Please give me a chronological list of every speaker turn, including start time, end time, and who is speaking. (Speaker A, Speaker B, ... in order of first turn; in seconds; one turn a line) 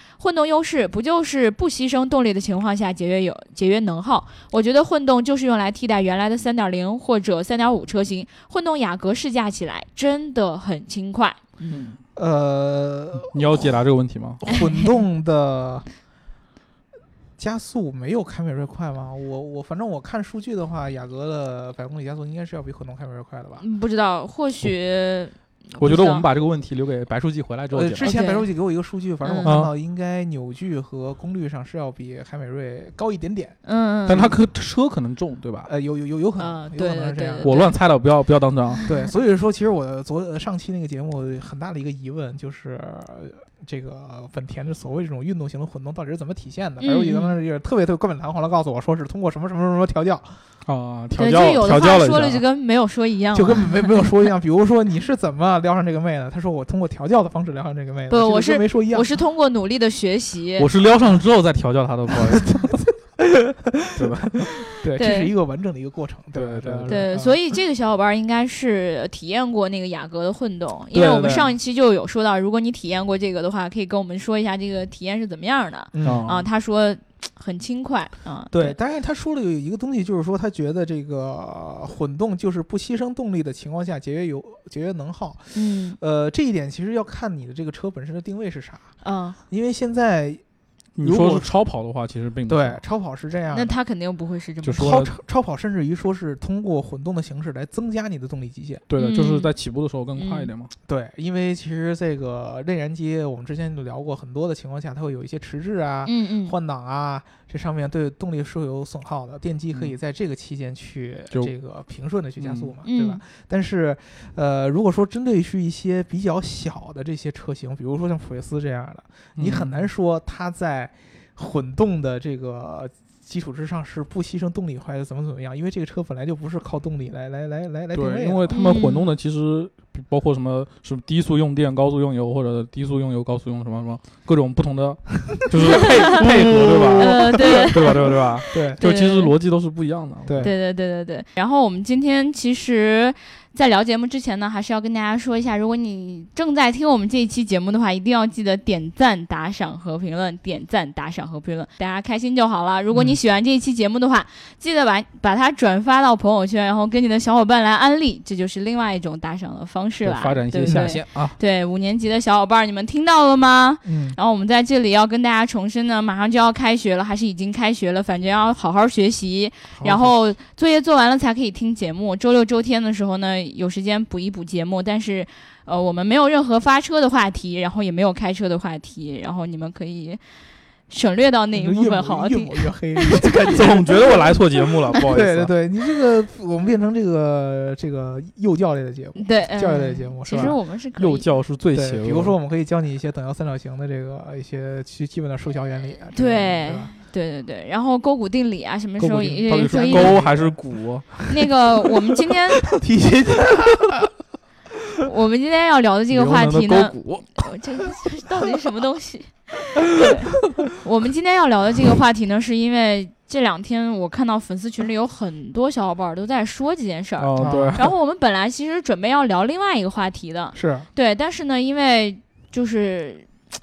Speaker A: 0.2-11.4
Speaker B: 11.6-12.0
Speaker C: 12.1-13.8
Speaker B: 13.2-14.4
Speaker C: 14.4-15.8
Speaker A: 14.5-14.9
Speaker C: 17.4-23.6
Speaker A: 23.6-26.2
Speaker B: 25.8-28.1
Speaker C: 27.7-33.5
Speaker A: 28.0-28.5
Speaker A: 29.2-29.5
Speaker B: 29.4-29.7
Speaker A: 33.6-34.3
Speaker B: 34.1-35.7
Speaker C: 35.6-37.5
Speaker A: 36.4-37.7
Speaker B: 37.4-38.8
Speaker C: 38.9-50.3
Speaker A: 46.8-47.3
Speaker B: 50.6-52.4
Speaker A: 51.1-54.1
Speaker C: 53.3-59.1
Speaker A: 58.1-60.7
Speaker B: 60.6-62.5
Speaker C: 62.1-67.4
Speaker B: 63.9-64.5
Speaker A: 65.0-65.3
Speaker B: 66.3-67.1
Speaker A: 66.9-78.8
Speaker C: 70.9-71.5
Speaker C: 75.9-76.4
Speaker B: 76.0-76.4
Speaker C: 78.5-88.8
Speaker A: 85.5-86.0
Speaker A: 89.0-89.4
Speaker C: 89.5-90.4
Speaker B: 91.0-92.8
Speaker C: 91.0-91.5
Speaker C: 92.5-93.7
Speaker A: 93.5-94.9
Speaker B: 94.6-95.1
Speaker C: 94.8-98.8
Speaker B: 98.9-100.7
Speaker A: 99.0-99.5
Speaker A: 100.2-100.5
Speaker C: 100.9-128.5
Speaker A: 106.0-106.5
Speaker B: 112.4-112.7
Speaker A: 112.8-113.2
Speaker B: 119.3-119.8
Speaker B: 127.9-140.5
Speaker A: 128.5-129.1
Speaker C: 135.5-138.8
Speaker A: 135.7-136.2
Speaker A: 136.9-139.3
Speaker C: 140.2-140.5
Speaker A: 140.4-180.2
Speaker C: 152.9-153.2
Speaker B: 160.0-161.4
Speaker C: 160.7-161.0
Speaker C: 163.8-164.2
Speaker C: 169.8-170.1
Speaker A: 180.9-183.7
Speaker C: 181.5-190.6
Speaker B: 183.5-185.5
Speaker A: 189.2-191.3
Speaker B: 190.4-192.3
Speaker C: 191.7-196.9
Speaker A: 196.1-200.2
Speaker B: 199.0-201.2
Speaker C: 199.5-200.6
Speaker A: 201.3-202.7
Speaker C: 202.6-204.1
Speaker A: 205.0-223.3
Speaker B: 206.1-207.4
Speaker B: 217.2-217.9
Speaker C: 217.4-217.9
Speaker C: 220.5-220.9